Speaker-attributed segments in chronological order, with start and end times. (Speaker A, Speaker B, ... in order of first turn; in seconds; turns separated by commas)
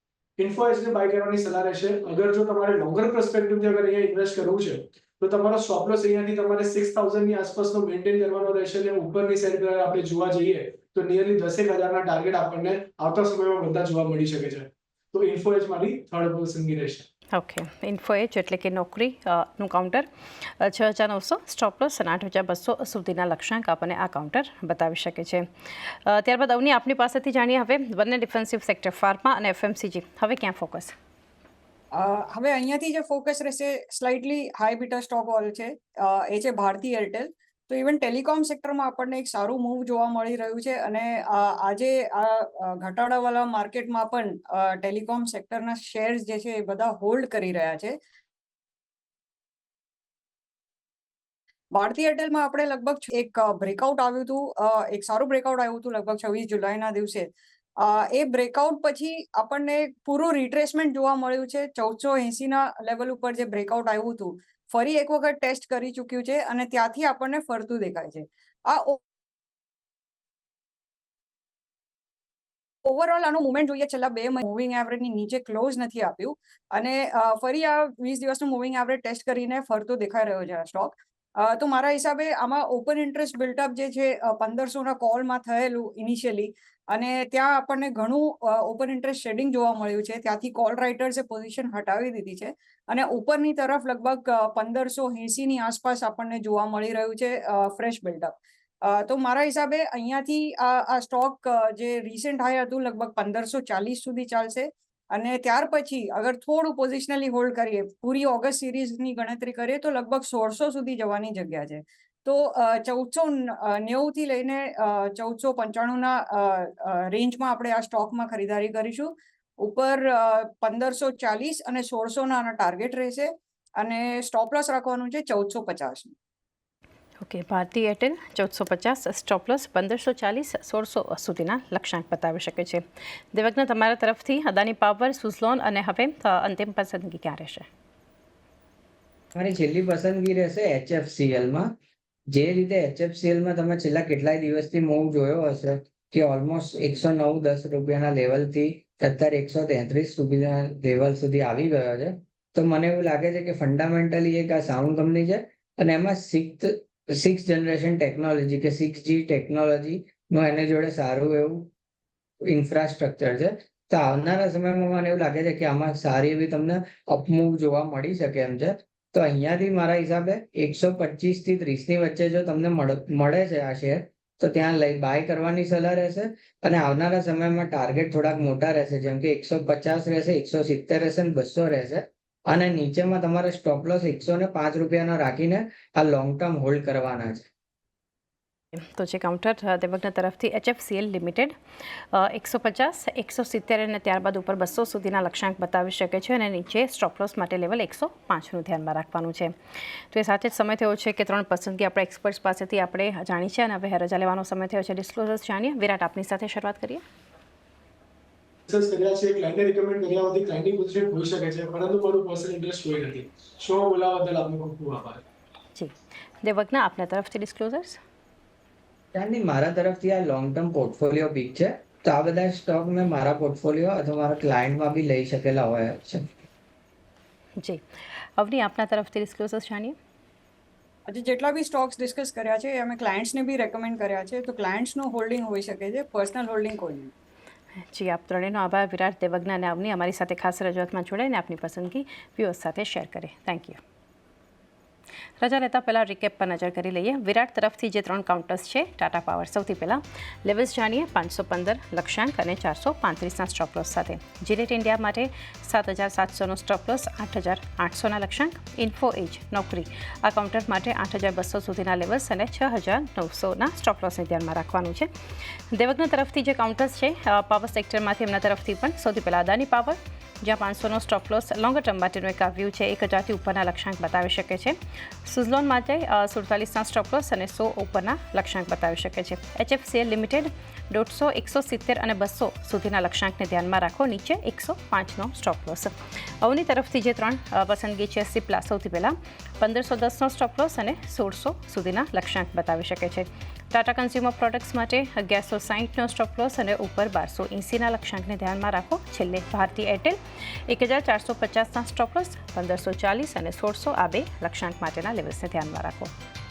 Speaker A: 0.4-17.1, Speaker B: 17.3-20.1, Speaker B: 20.6-30.9, Speaker C: 31.9-48.0, Speaker C: 51.7-69.0, Speaker C: 72.8-126.1, Speaker B: 127.2-137.7, Speaker D: 139.3-141.7, Speaker D: 142.3-161.7, Speaker D: 162.5-187.5, Speaker B: 188.8-191.6, Speaker B: 192.1-199.5, Speaker B: 200.1-207.0, Speaker A: 208.7-215.2, Speaker B: 215.8-218.0, Speaker D: 219.1-226.3, Speaker B: 228.4-230.0, Speaker C: 231.1-237.1, Speaker B: 237.9-243.8, Speaker B: 245.4-265.1, Speaker B: 265.7-306.1